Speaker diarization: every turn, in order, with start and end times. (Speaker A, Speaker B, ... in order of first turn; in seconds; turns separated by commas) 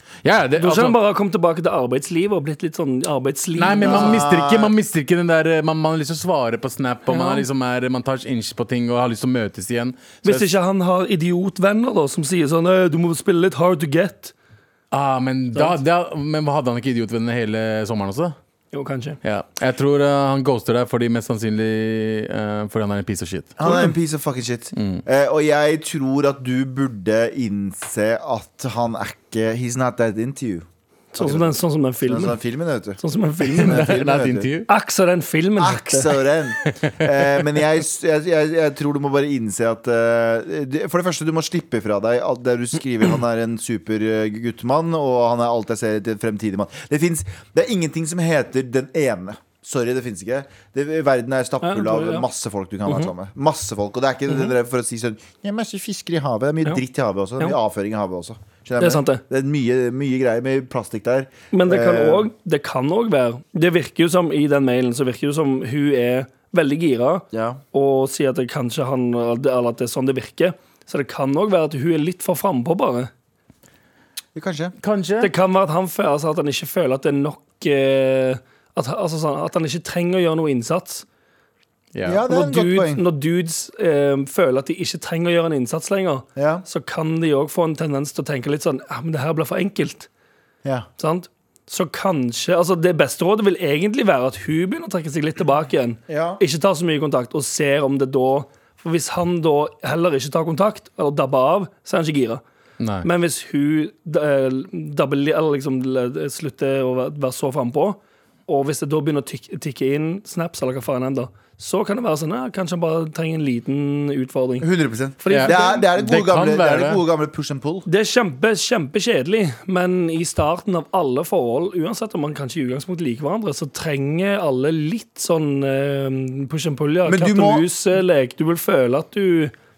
Speaker A: 0.2-1.0, Speaker B: 0.6-4.2, Speaker A: 3.5-10.5, Speaker C: 3.8-4.7, Speaker B: 7.1-7.4, Speaker B: 10.2-14.3, Speaker A: 14.9-18.4, Speaker B: 18.7-19.2, Speaker A: 19.2-23.7, Speaker C: 23.6-34.5, Speaker A: 24.7-25.0, Speaker B: 31.1-32.4, Speaker B: 33.0-34.0, Speaker A: 33.5-34.7, Speaker B: 34.7-36.2, Speaker C: 35.6-62.3, Speaker A: 36.6-37.3, Speaker B: 51.6-52.3, Speaker B: 58.8-59.2, Speaker B: 61.5-73.1, Speaker C: 67.3-67.6, Speaker C: 74.3-74.7, Speaker A: 74.8-75.3, Speaker B: 75.2-81.0, Speaker A: 81.9-82.2, Speaker C: 82.0-83.0, Speaker B: 82.3-90.1, Speaker C: 86.3-86.7, Speaker B: 91.0-102.4, Speaker C: 96.1-96.4, Speaker A: 102.8-103.1, Speaker B: 103.0-114.7, Speaker C: 114.6-117.9, Speaker B: 115.2-115.8, Speaker A: 115.3-117.0, Speaker B: 117.8-129.5, Speaker C: 127.0-127.7